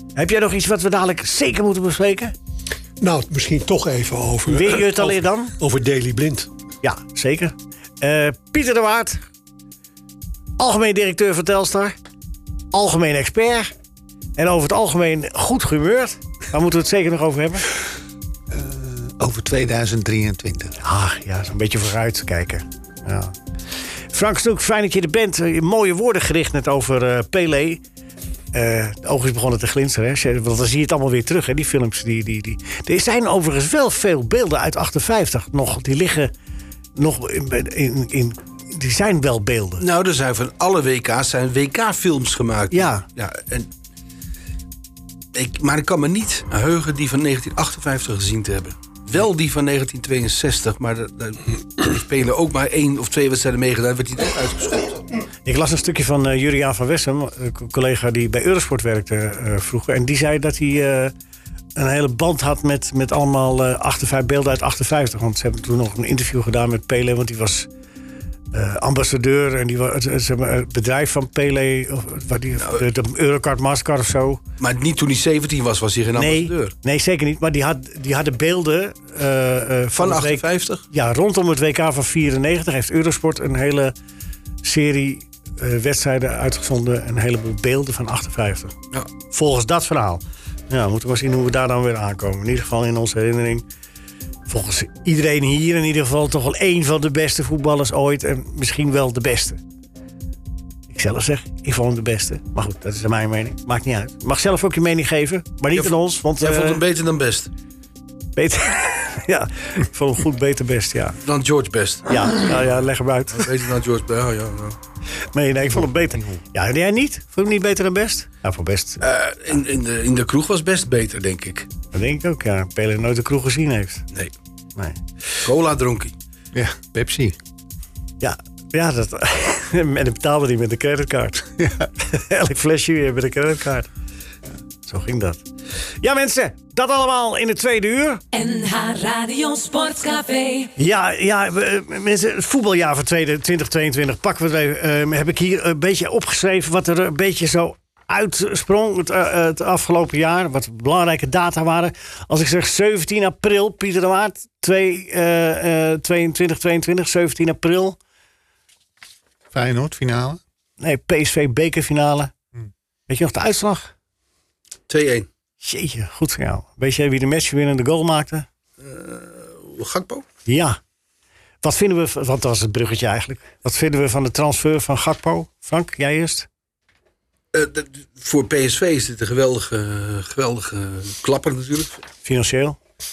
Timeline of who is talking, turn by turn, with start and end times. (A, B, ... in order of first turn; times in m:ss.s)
0:00.2-0:02.3 A
0:03.0-0:06.5 B
0:04.5-0:05.5 A
0:06.8-0:09.2 A
0:10.6-0:11.9 A
0:12.7-0:13.7 A
0:14.4-0:17.7 A
0:18.5-0:20.8 C
0:20.8-0:23.3 A
0:24.1-0:27.8 A
0:28.5-0:36.3 A
0:37.0-0:39.8 A
0:39.8-0:43.7 D
0:42.7-0:43.0 A
0:45.3-0:55.0 D
0:55.4-1:01.1 A
1:01.8-1:07.7 A
1:08.5-1:14.4 A
1:12.6-1:12.8 D
1:14.6-1:16.7 D
1:16.2-1:23.9 A
1:20.0-1:20.8 D
1:24.6-1:28.7 A
1:29.3-1:33.6 A
1:34.5-1:39.6 A
1:40.9-1:46.8 A
1:45.7-1:47.5 D
1:48.4-1:51.2 A
1:51.2-1:52.7 D
1:52.1-1:53.5 A
1:53.3-1:54.8 D
1:55.3-1:59.0 A
1:56.1-1:56.4 C
1:59.0-2:01.7 D
2:01.9-2:04.0 A
2:05.4-2:06.1 D
2:06.5-2:07.4 C
2:08.2-2:13.9 A
2:14.8-2:15.4 A
2:16.0-2:18.2 A
2:18.3-2:20.7 E
2:20.8-2:38.0 A
2:39.5-2:40.4 C
2:40.8-2:42.3 A
2:43.1-2:43.9 A
2:44.9-2:45.3 D
2:45.6-2:48.4 A
2:48.8-2:50.2 D
2:50.4-2:50.8 A
2:51.6-2:56.5 A
2:57.5-3:02.0 D
3:02.2-3:02.8 A